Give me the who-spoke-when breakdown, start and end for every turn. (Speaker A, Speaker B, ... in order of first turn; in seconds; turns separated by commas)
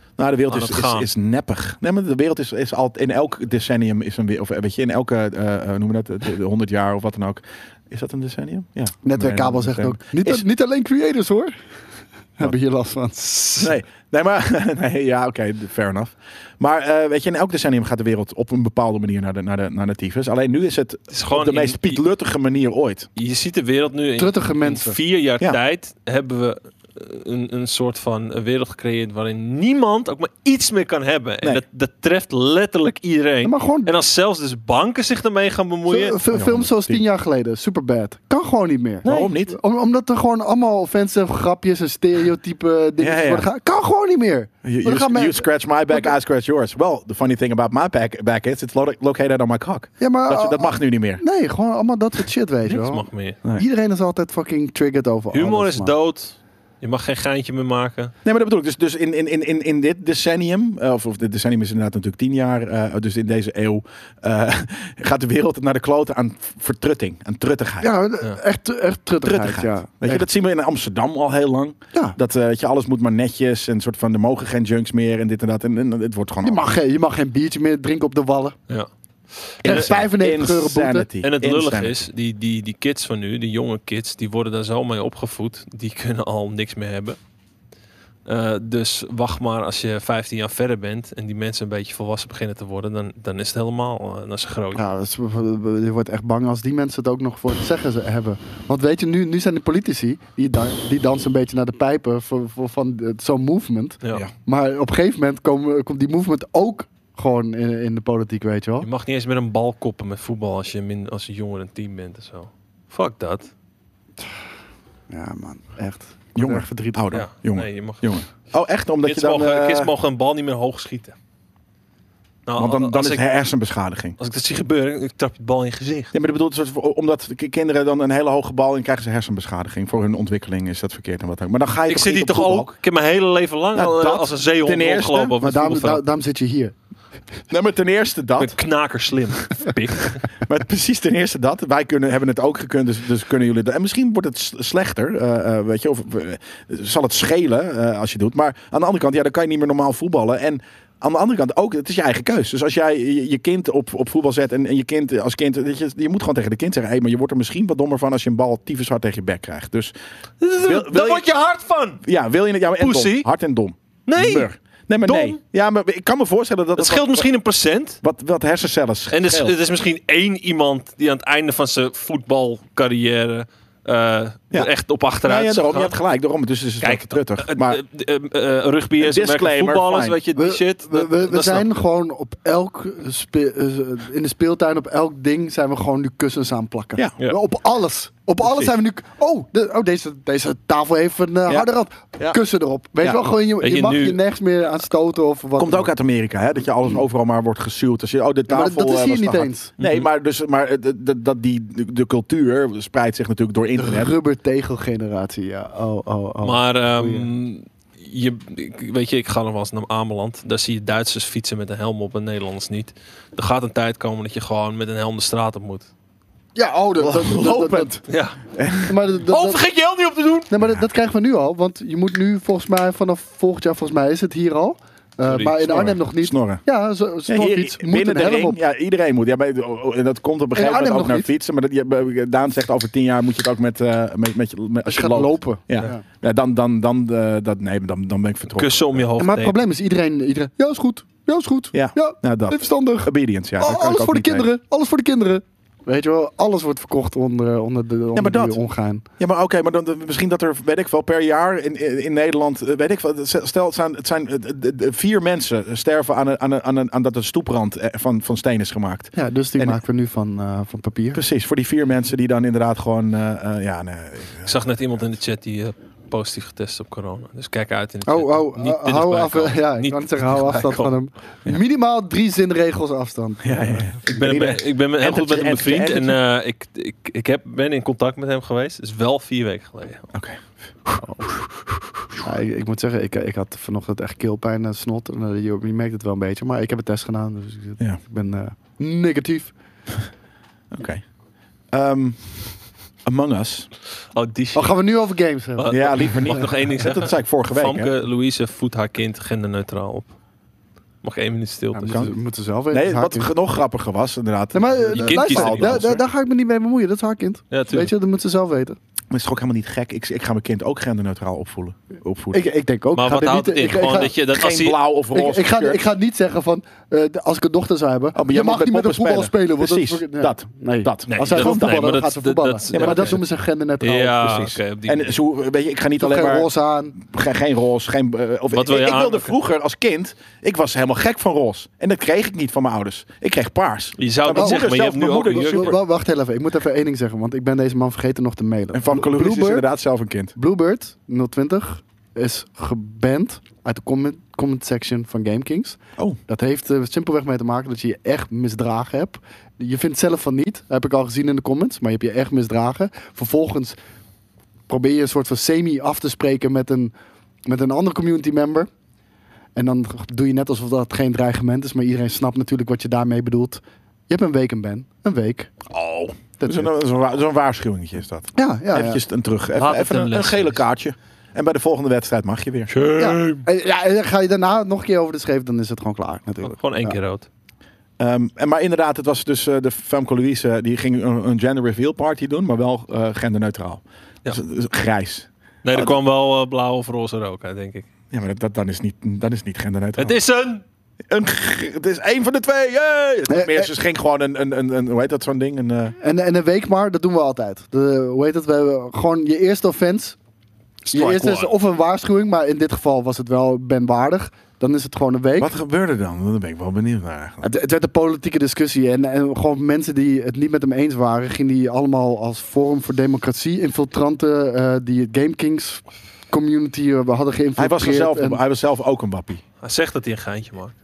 Speaker A: 0.2-10.4, Speaker B: 0.5-1.1, Speaker C: 9.0-11.5, Speaker C: 12.4-13.7, Speaker A: 13.6-23.1, Speaker B: 21.1-22.0, Speaker B: 23.1-36.2, Speaker C: 24.2-25.0, Speaker C: 33.4-33.9, Speaker C: 35.9-46.1, Speaker A: 36.3-37.0, Speaker B: 39.0-39.3, Speaker A: 39.0-39.6, Speaker A: 43.0-43.5, Speaker A: 44.6-51.2, Speaker C: 50.0-55.9, Speaker B: 52.6-53.4, Speaker B: 55.3-58.1, Speaker A: 58.2-67.9, Speaker C: 67.8-70.2, Speaker A: 69.2-76.7, Speaker C: 76.4-78.6, Speaker B: 78.7-79.9, Speaker C: 79.6-81.1, Speaker A: 79.6-82.0, Speaker B: 81.2-87.2, Speaker B: 88.2-94.8, Speaker C: 94.7-108.9, Speaker B: 108.8-113.5, Speaker C: 115.1-117.0, Speaker A: 116.3-119.9, Speaker B: 117.1-118.1, Speaker B: 119.0-121.1, Speaker B: 122.5-123.2, Speaker A: 122.5-124.2, Speaker B: 124.2-126.1, Speaker A: 126.1-132.7, Speaker B: 131.9-136.0, Speaker A: 133.7-135.3, Speaker C: 135.4-136.7, Speaker A: 137.5-138.6, Speaker B: 138.4-140.2, Speaker A: 140.4-159.9, Speaker B: 160.4-162.0, Speaker A: 160.6-161.3, Speaker A: 162.0-167.3, Speaker B: 162.8-163.3, Speaker B: 164.1-164.5, Speaker B: 165.0-165.4, Speaker B: 166.8-168.0, Speaker A: 168.0-169.6, Speaker B: 169.1-176.0, Speaker A: 175.2-177.8, Speaker B: 176.8-181.7, Speaker A: 179.0-180.2, Speaker C: 180.3-195.9, Speaker A: 188.4-188.7, Speaker B: 193.6-194.2, Speaker A: 195.6-204.1, Speaker C: 198.5-199.7, Speaker B: 199.8-200.1, Speaker C: 203.8-207.3, Speaker B: 206.4-215.9, Speaker C: 216.5-218.0, Speaker A: 217.0-218.0, Speaker B: 218.1-218.4, Speaker A: 218.5-218.9, Speaker C: 218.8-219.7, Speaker B: 219.2-220.5, Speaker C: 220.5-228.6, Speaker B: 225.3-225.7, Speaker A: 225.6-226.6, Speaker A: 227.3-239.0, Speaker C: 230.5-231.3, Speaker C: 234.8-236.0, Speaker B: 238.6-239.6, Speaker C: 239.2-249.0, Speaker A: 241.7-244.5, Speaker A: 248.1-248.6, Speaker A: 249.2-259.8, Speaker C: 259.1-261.2, Speaker A: 261.1-264.6, Speaker B: 264.4-270.9, Speaker C: 268.1-273.9, Speaker A: 273.4-276.2, Speaker B: 274.1-280.1, Speaker A: 280.1-281.0, Speaker C: 281.0-281.3, Speaker C: 282.2-289.5, Speaker A: 290.7-291.1, Speaker A: 291.7-293.7, Speaker B: 294.1-294.8, Speaker C: 294.5-296.2, Speaker B: 295.6-300.1, Speaker A: 295.7-297.9, Speaker B: 301.0-302.1, Speaker C: 301.7-303.3, Speaker A: 301.8-302.1, Speaker A: 302.7-306.0, Speaker C: 304.5-308.8, Speaker B: 304.9-305.9, Speaker B: 307.5-307.9, Speaker A: 309.1-312.4, Speaker C: 312.3-314.1, Speaker B: 312.9-314.8, Speaker A: 314.3-315.8, Speaker C: 315.1-324.4, Speaker A: 318.1-321.9, Speaker B: 321.1-323.2, Speaker A: 322.7-323.2, Speaker B: 323.8-325.2, Speaker A: 324.2-335.8, Speaker C: 326.0-326.9, Speaker B: 328.5-329.3, Speaker B: 334.0-335.8, Speaker C: 334.3-334.7, Speaker C: 335.3-339.6, Speaker A: 338.7-340.3, Speaker C: 340.4-353.8, Speaker C: 354.7-356.9, Speaker C: 357.4-358.7, Speaker C: 359.5-365.5, Speaker A: 365.7-372.7, Speaker C: 366.4-366.7, Speaker C: 368.3-369.0, Speaker B: 369.6-370.6, Speaker B: 372.7-373.4, Speaker C: 373.0-377.0, Speaker B: 376.4-377.3, Speaker A: 378.0-385.9, Speaker B: 385.6-387.9, Speaker A: 388.1-390.2, Speaker B: 390.0-390.6, Speaker A: 391.1-395.9, Speaker C: 393.3-393.7, Speaker C: 396.0-400.2, Speaker C: 400.9-405.5, Speaker A: 400.9-401.5, Speaker A: 405.4-407.5, Speaker C: 407.4-418.4, Speaker A: 417.6-419.4, Speaker B: 419.6-420.7